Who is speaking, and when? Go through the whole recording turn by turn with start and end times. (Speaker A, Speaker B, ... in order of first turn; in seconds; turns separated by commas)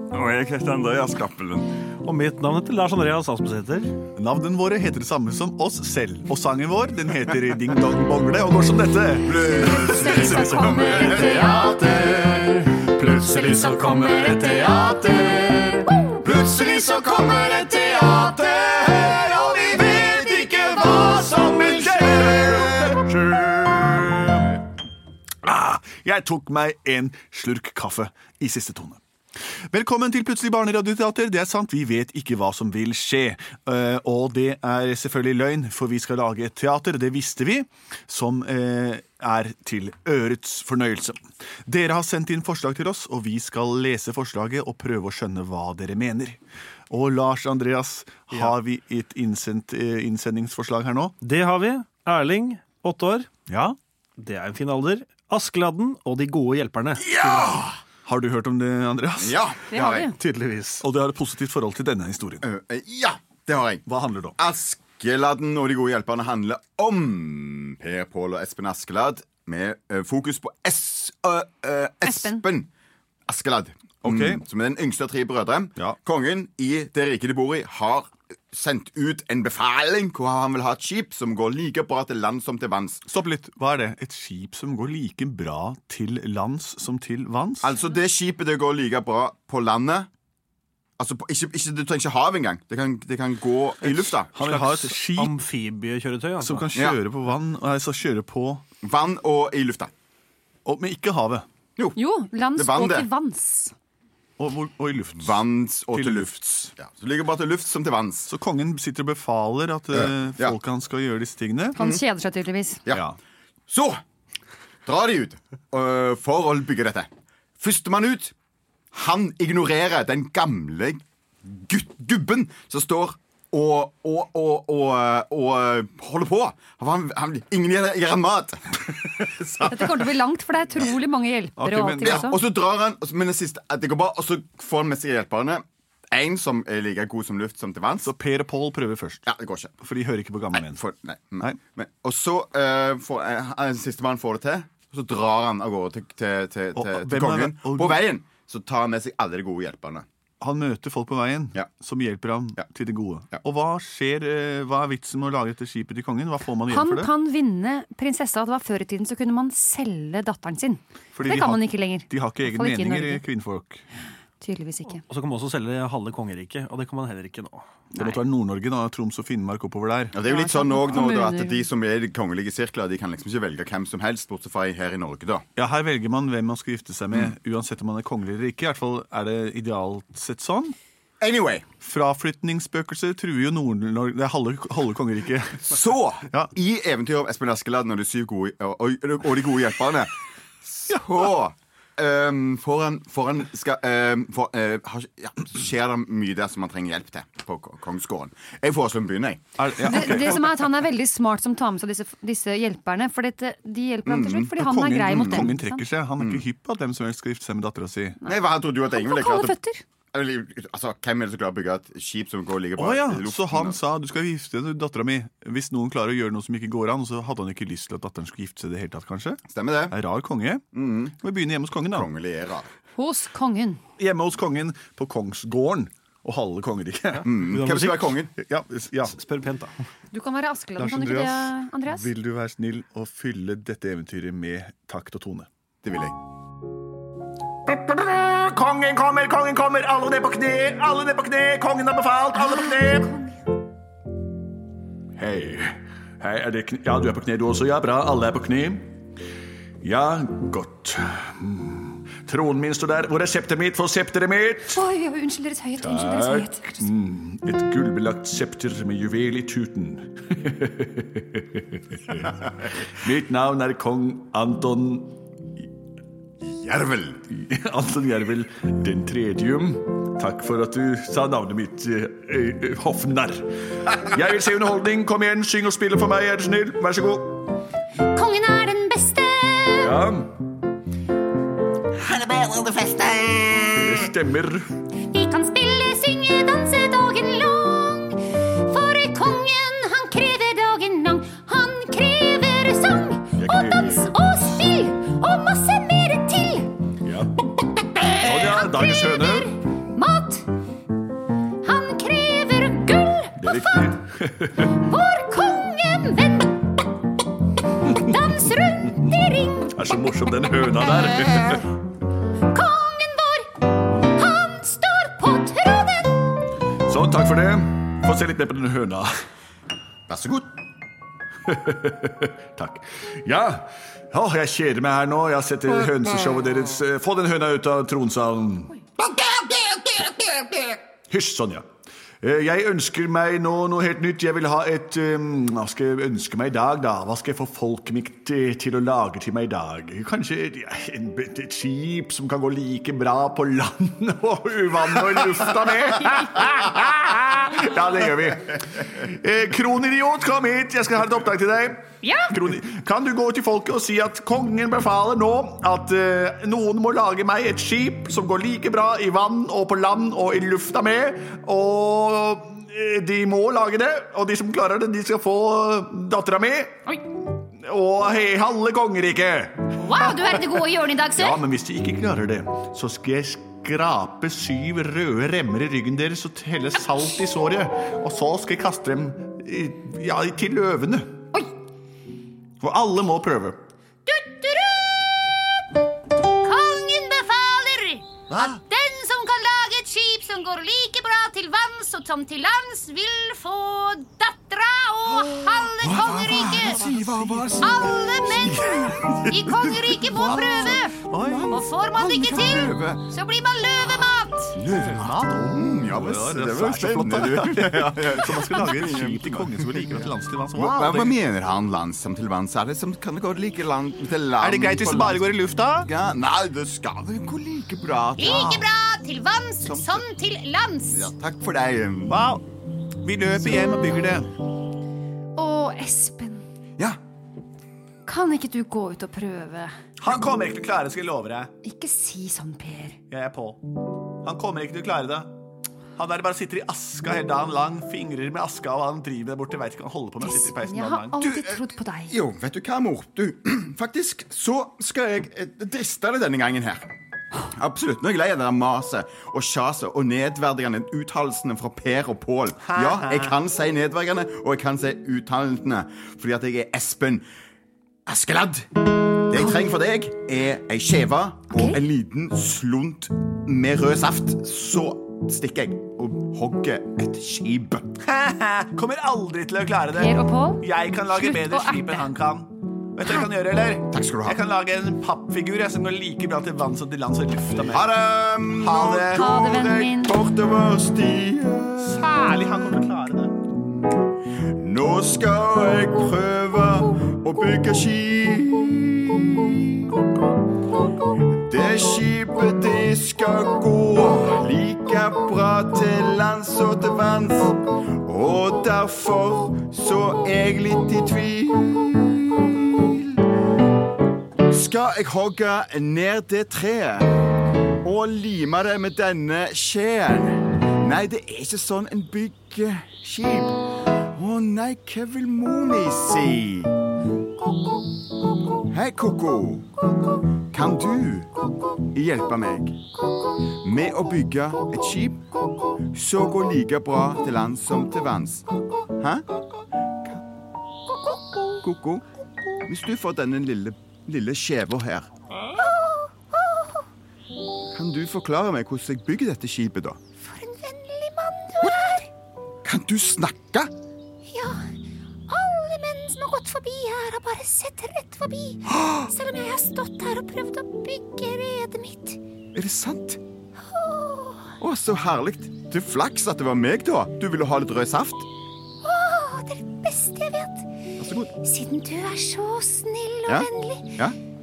Speaker A: 0.1-1.8, Speaker B: 2.0-3.9, Speaker C: 4.2-11.0, Speaker A: 9.2-12.4, Speaker D: 9.4-15.7, Speaker C: 13.0-15.2, Speaker A: 16.2-23.0, Speaker C: 18.9-24.5, Speaker C: 25.4-29.0, Speaker C: 29.7-51.2, Speaker B: 51.2-53.6, Speaker B: 54.2-57.5, Speaker C: 57.1-57.5, Speaker A: 57.2-57.7, Speaker C: 58.0-59.4, Speaker A: 59.2-60.1, Speaker D: 59.7-60.2, Speaker B: 60.2-60.8, Speaker C: 60.8-62.5, Speaker A: 62.4-63.8, Speaker C: 63.9-64.4, Speaker A: 64.4-72.7, Speaker D: 72.0-72.4, Speaker A: 73.3-83.0, Speaker C: 74.0-74.4, Speaker C: 83.1-87.7, Speaker A: 87.6-90.1, Speaker A: 91.0-94.3, Speaker C: 93.9-95.3, Speaker B: 94.4-96.7, Speaker C: 96.4-98.6, Speaker A: 98.8-99.9, Speaker C: 100.6-101.5, Speaker D: 102.0-103.7, Speaker A: 102.5-103.1, Speaker C: 104.4-106.7, Speaker A: 105.2-108.3, Speaker C: 108.3-111.8, Speaker A: 109.9-110.6, Speaker D: 111.8-112.8, Speaker C: 112.9-113.2, Speaker A: 113.7-114.0, Speaker A: 114.8-118.3, Speaker A: 118.9-130.1, Speaker D: 129.6-132.4, Speaker C: 131.6-132.3, Speaker A: 132.0-138.1, Speaker C: 138.0-139.2, Speaker A: 139.2-139.7, Speaker C: 139.8-140.8, Speaker A: 140.5-150.1, Speaker C: 146.8-148.1, Speaker C: 150.4-157.1, Speaker D: 156.7-163.2, Speaker C: 161.1-163.8, Speaker D: 164.4-165.0, Speaker B: 165.1-167.4, Speaker C: 167.9-170.2, Speaker A: 170.1-175.4, Speaker D: 170.2-171.6, Speaker C: 175.6-180.8, Speaker A: 181.2-181.7, Speaker C: 181.8-185.8, Speaker A: 185.6-190.1, Speaker A: 190.6-200.2, Speaker C: 199.6-200.4, Speaker D: 199.8-205.8, Speaker A: 204.1-204.5, Speaker C: 204.6-208.2, Speaker A: 205.1-205.5, Speaker A: 206.2-206.4, Speaker A: 208.2-209.6, Speaker D: 208.9-209.8, Speaker A: 210.1-213.8, Speaker C: 212.8-220.6, Speaker A: 219.5-219.9, Speaker A: 220.7-221.2, Speaker C: 221.2-222.1, Speaker A: 221.9-222.7, Speaker D: 223.0-223.8, Speaker C: 224.0-227.3, Speaker A: 227.2-228.3, Speaker B: 227.5-228.1, Speaker C: 228.4-229.2, Speaker B: 229.2-229.7, Speaker D: 230.1-232.1, Speaker C: 230.8-235.5, Speaker A: 235.8-236.2, Speaker C: 237.7-243.1, Speaker C: 245.2-248.9, Speaker C: 249.8-254.8, Speaker D: 254.7-256.9, Speaker C: 255.8-265.1, Speaker A: 266.4-267.2, Speaker C: 267.3-277.4, Speaker E: 278.1-279.9, Speaker C: 279.8-280.4, Speaker A: 282.0-283.9, Speaker C: 283.7-284.7, Speaker E: 285.1-296.7, Speaker C: 293.4-294.2, Speaker C: 297.0-297.4, Speaker E: 297.9-300.5, Speaker C: 298.0-299.5, Speaker E: 301.6-304.0, Speaker C: 303.4-304.8, Speaker E: 304.6-306.8, Speaker E: 307.8-309.9, Speaker C: 307.8-308.1, Speaker C: 309.7-311.6, Speaker E: 312.5-313.5, Speaker E: 314.1-316.2, Speaker C: 316.9-319.1, Speaker A: 320.1-320.5, Speaker C: 321.5-328.8, Speaker A: 329.0-330.5, Speaker C: 331.1-331.7, Speaker C: 332.2-366.9, Speaker E: 352.0-352.3, Speaker C: 367.5-370.4, Speaker E: 369.8-371.4, Speaker C: 371.1-381.2, Speaker C: 382.6-383.6, Speaker E: 384.1-385.6, Speaker E: 386.4-396.8, Speaker C: 388.3-388.6, Speaker A: 395.2-403.1, Speaker C: 396.2-399.3, Speaker E: 397.6-404.6, Speaker C: 400.0-401.6, Speaker A: 404.5-418.7, Speaker C: 404.6-411.2, Speaker C: 414.4-415.9, Speaker E: 418.2-421.1, Speaker A: 419.6-420.1, Speaker A: 420.9-422.3, Speaker C: 422.1-422.4, Speaker C: 423.0-424.3, Speaker D: 425.4-426.4, Speaker D: 428.1-429.7, Speaker C: 430.0-431.5, Speaker D: 431.6-433.0, Speaker C: 433.1-433.6, Speaker C: 434.2-435.3, Speaker C: 435.9-441.2, Speaker D: 440.2-442.1, Speaker A: 441.2-441.6, Speaker A: 442.1-446.9, Speaker A: 447.5-457.2, Speaker C: 452.7-453.3, Speaker A: 458.1-458.7, Speaker A: 459.2-467.9, Speaker D: 461.5-461.8, Speaker C: 468.0-477.9, Speaker D: 469.9-472.1, Speaker A: 473.9-474.4, Speaker A: 477.7-482.0, Speaker C: 478.6-479.3, Speaker D: 479.1-480.1, Speaker C: 481.8-483.3, Speaker A: 484.6-490.0, Speaker A: 491.3-503.2, Speaker A: 504.5-507.2, Speaker A: 507.8-516.8, Speaker A: 518.7-519.7, Speaker A: 520.5-522.8, Speaker A: 523.6-525.3, Speaker A: 525.8-528.5, Speaker A: 529.0-529.2, Speaker E: 530.9-531.5, Speaker A: 531.6-532.0, Speaker A: 532.6-535.1, Speaker E: 535.5-536.9, Speaker A: 537.7-540.0, Speaker E: 540.2-542.1, Speaker A: 541.6-542.0, Speaker A: 542.6-543.7, Speaker E: 544.3-544.8, Speaker E: 545.3-552.2, Speaker A: 548.7-549.1, Speaker A: 552.5-553.2, Speaker E: 553.6-554.6, Speaker A: 554.6-558.3, Speaker E: 558.8-560.7, Speaker A: 561.0-561.3, Speaker E: 561.4-564.0, Speaker A: 563.2-564.2